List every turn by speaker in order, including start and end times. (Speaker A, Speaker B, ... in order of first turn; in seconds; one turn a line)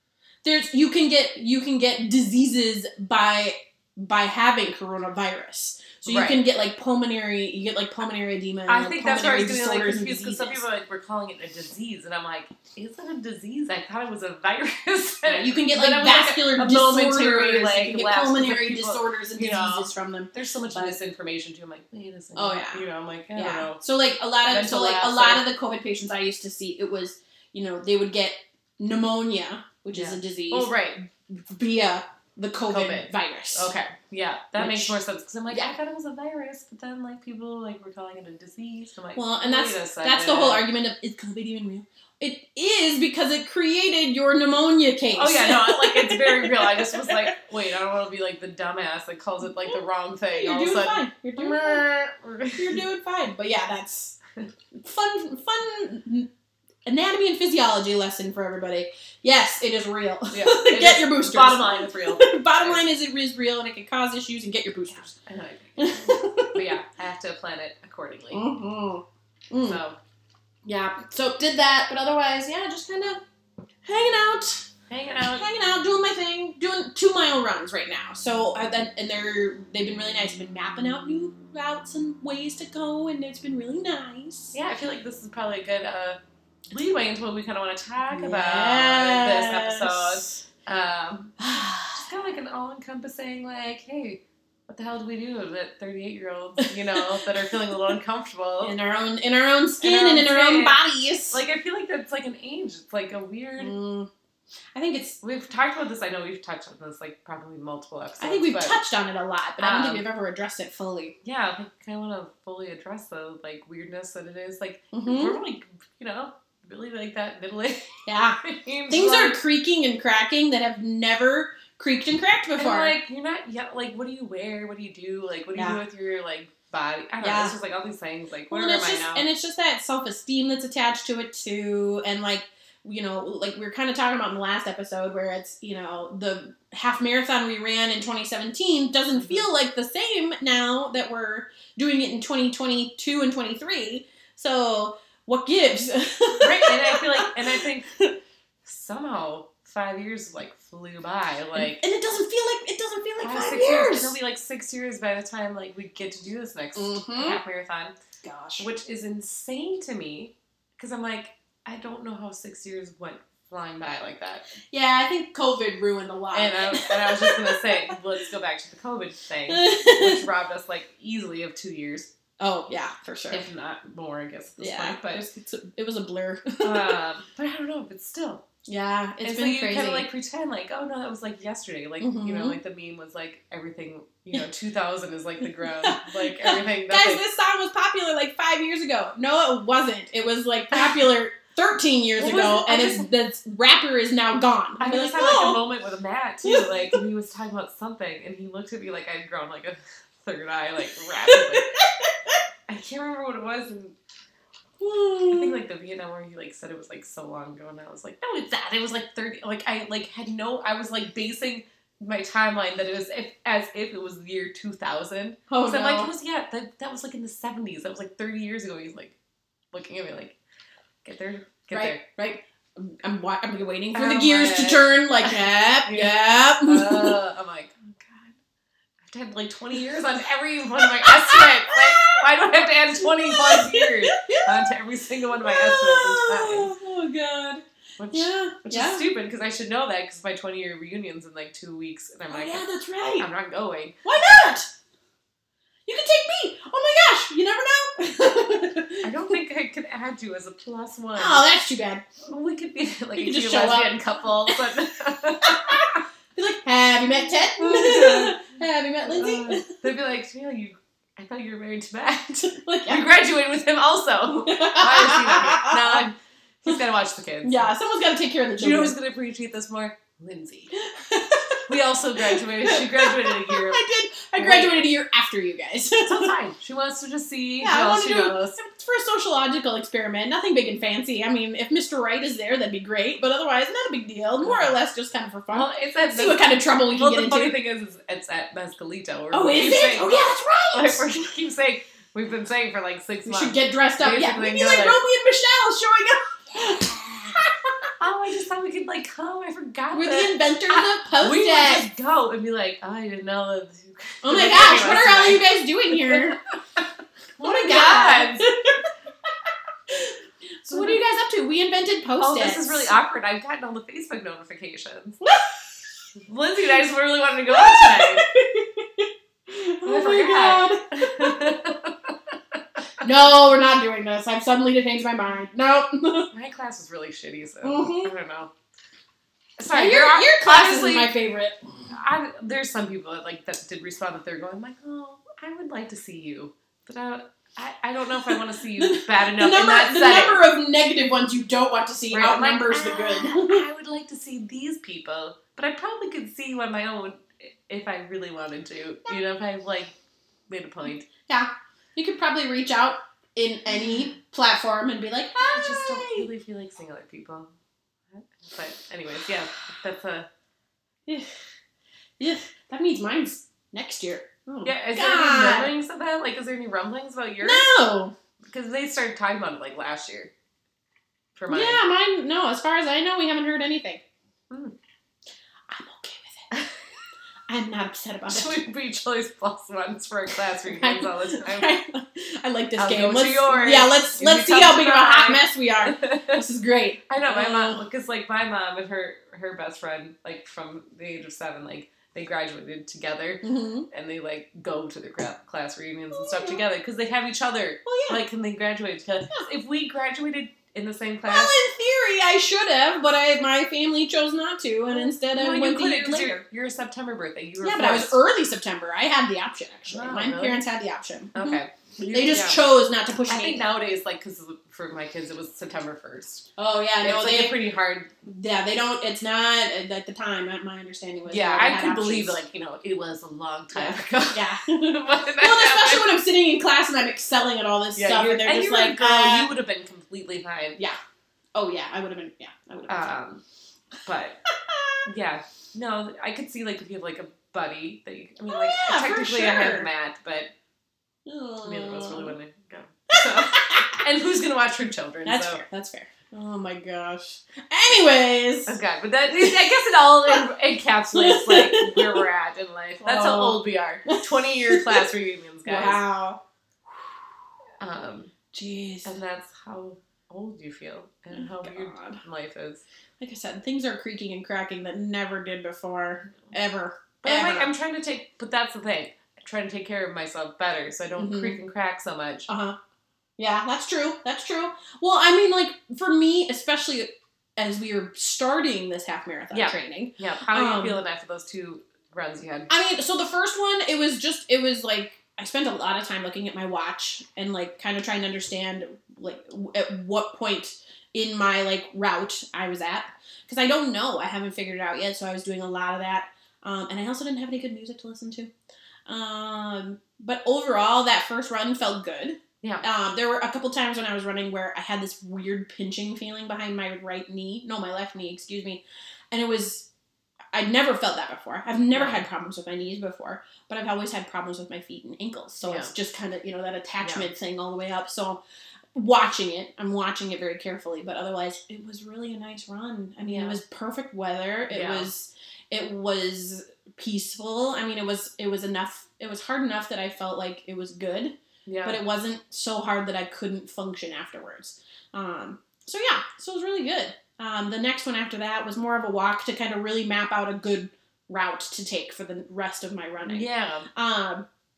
Speaker A: 0.4-10.6
Speaker B: 6.0-6.4
Speaker B: 8.7-23.8
Speaker A: 15.2-20.9
Speaker A: 22.4-22.8
Speaker A: 23.3-30.7
Speaker B: 24.4-25.4
Speaker B: 29.9-31.1
Speaker A: 31.3-33.7
Speaker B: 32.7-40.6
Speaker A: 34.5-35.0
Speaker A: 39.1-47.3
Speaker B: 45.1-52.8
Speaker A: 50.3-51.8
Speaker A: 52.5-54.2
Speaker A: 54.7-56.3
Speaker A: 56.8-65.1
Speaker B: 60.3-62.8
Speaker B: 64.9-68.5
Speaker A: 65.8-66.7
Speaker A: 68.3-69.8
Speaker B: 69.6-70.0
Speaker A: 70.6-73.2
Speaker A: 73.8-74.7
Speaker B: 74.9-75.4
Speaker A: 75.2-84.5
Speaker B: 84.5-86.2
Speaker B: 86.7-98.7
Speaker A: 88.1-90.3
Speaker A: 91.4-92.0
Speaker A: 98.6-101.4
Speaker B: 99.8-103.7
Speaker A: 103.6-104.1
Speaker A: 104.7-105.2
Speaker B: 105.2-108.8
Speaker A: 108.2-111.1
Speaker B: 109.6-110.0
Speaker B: 111.2-119.4
Speaker A: 114.9-115.4
Speaker A: 118.0-122.9
Speaker B: 122.6-129.2
Speaker A: 127.2-127.5
Speaker A: 128.5-147.3
Speaker B: 139.2-139.4
Speaker B: 146.4-148.0
Speaker B: 148.6-151.8
Speaker A: 151.6-154.2
Speaker B: 153.2-157.9
Speaker A: 156.7-157.4
Speaker A: 158.2-158.7
Speaker B: 158.6-164.5
Speaker A: 164.7-167.9
Speaker B: 166.3-172.1
Speaker A: 169.5-170.2
Speaker A: 172.4-173.4
Speaker B: 173.3-175.2
Speaker A: 174.6-177.0
Speaker B: 176.6-178.4
Speaker A: 178.7-180.1
Speaker B: 179.2-187.2
Speaker A: 182.0-182.6
Speaker A: 185.6-195.6
Speaker B: 192.2-193.1
Speaker B: 194.8-201.7
Speaker A: 196.4-197.0
Speaker A: 201.2-202.4
Speaker B: 202.7-203.9
Speaker A: 204.8-205.6
Speaker B: 205.2-219.2
Speaker A: 215.5-216.1
Speaker B: 219.7-220.4
Speaker B: 221.0-222.0
Speaker A: 221.7-227.2
Speaker B: 223.9-228.3
Speaker B: 229.0-236.7
Speaker A: 230.8-232.2
Speaker A: 233.0-234.7
Speaker A: 235.4-239.0
Speaker B: 238.0-244.0
Speaker A: 242.3-243.3
Speaker A: 244.0-244.7
Speaker A: 245.8-249.3
Speaker B: 249.0-251.4
Speaker A: 251.2-252.0
Speaker B: 252.2-256.0
Speaker A: 253.2-254.6
Speaker A: 255.4-259.7
Speaker B: 257.6-258.5
Speaker B: 259.0-267.7
Speaker A: 262.4-263.0
Speaker A: 264.4-266.1
Speaker A: 267.4-268.9
Speaker B: 268.6-270.7
Speaker A: 270.8-271.6
Speaker B: 271.7-273.8
Speaker A: 272.2-276.3
Speaker B: 274.4-274.8
Speaker B: 276.0-278.6
Speaker A: 277.6-287.6
Speaker B: 284.4-284.7
Speaker B: 285.5-295.0
Speaker A: 289.3-291.1
Speaker A: 293.2-297.9
Speaker B: 298.0-306.8
Speaker A: 299.9-301.9
Speaker A: 304.2-306.4
Speaker B: 307.4-308.5
Speaker A: 307.4-309.3
Speaker A: 309.9-312.9
Speaker B: 310.7-311.0
Speaker B: 312.2-315.3
Speaker A: 315.2-315.6
Speaker B: 316.2-318.3
Speaker A: 317.5-321.7
Speaker B: 319.8-322.8
Speaker A: 323.0-326.3
Speaker B: 326.3-328.5
Speaker A: 327.6-328.1
Speaker B: 329.6-331.1
Speaker A: 329.7-331.6
Speaker B: 331.9-340.4
Speaker A: 338.2-343.6
Speaker B: 342.1-349.9
Speaker B: 350.5-351.1
Speaker A: 351.3-356.2
Speaker B: 355.4-357.5
Speaker B: 358.1-360.3
Speaker A: 362.2-365.7
Speaker B: 364.6-367.7
Speaker A: 367.4-368.1
Speaker B: 368.5-370.3
Speaker B: 371.4-371.8
Speaker A: 371.5-374.0
Speaker B: 374.5-374.7
Speaker A: 375.7-376.5
Speaker A: 377.5-378.6
Speaker B: 378.3-381.7
Speaker A: 380.3-387.8
Speaker B: 382.8-386.4
Speaker B: 387.1-401.6
Speaker A: 393.4-393.9
Speaker A: 396.1-396.6
Speaker A: 397.8-398.2
Speaker A: 401.2-406.4
Speaker B: 404.9-408.2
Speaker A: 407.6-413.6
Speaker B: 409.9-410.6
Speaker B: 411.3-412.6
Speaker B: 413.3-416.5
Speaker A: 416.6-417.6
Speaker B: 417.0-418.1
Speaker A: 418.2-422.4
Speaker B: 421.3-426.1
Speaker A: 423.7-429.5
Speaker B: 427.9-430.8
Speaker A: 431.5-433.1
Speaker B: 432.9-433.4
Speaker B: 434.0-434.4
Speaker A: 434.5-435.0
Speaker B: 435.0-440.5
Speaker A: 438.5-439.9
Speaker A: 441.2-442.4
Speaker B: 441.6-445.6
Speaker A: 443.1-444.0
Speaker A: 445.2-448.8
Speaker B: 448.7-456.0
Speaker A: 449.4-450.4
Speaker A: 451.1-452.2
Speaker A: 453.0-455.1
Speaker A: 455.6-456.4
Speaker B: 457.8-458.3
Speaker A: 458.5-459.1
Speaker B: 459.0-462.8
Speaker A: 461.3-462.2
Speaker A: 463.2-467.7
Speaker B: 467.2-472.5
Speaker A: 471.2-471.6
Speaker A: 472.5-472.8
Speaker A: 473.4-481.0
Speaker B: 479.5-482.7
Speaker A: 482.7-498.5
Speaker A: 499.1-509.9
Speaker A: 510.5-518.4
Speaker B: 511.9-512.2
Speaker B: 515.6-515.9
Speaker B: 517.0-517.3
Speaker A: 518.9-544.5
Speaker B: 523.2-523.6
Speaker B: 524.7-525.1
Speaker B: 531.6-532.0
Speaker B: 543.2-543.9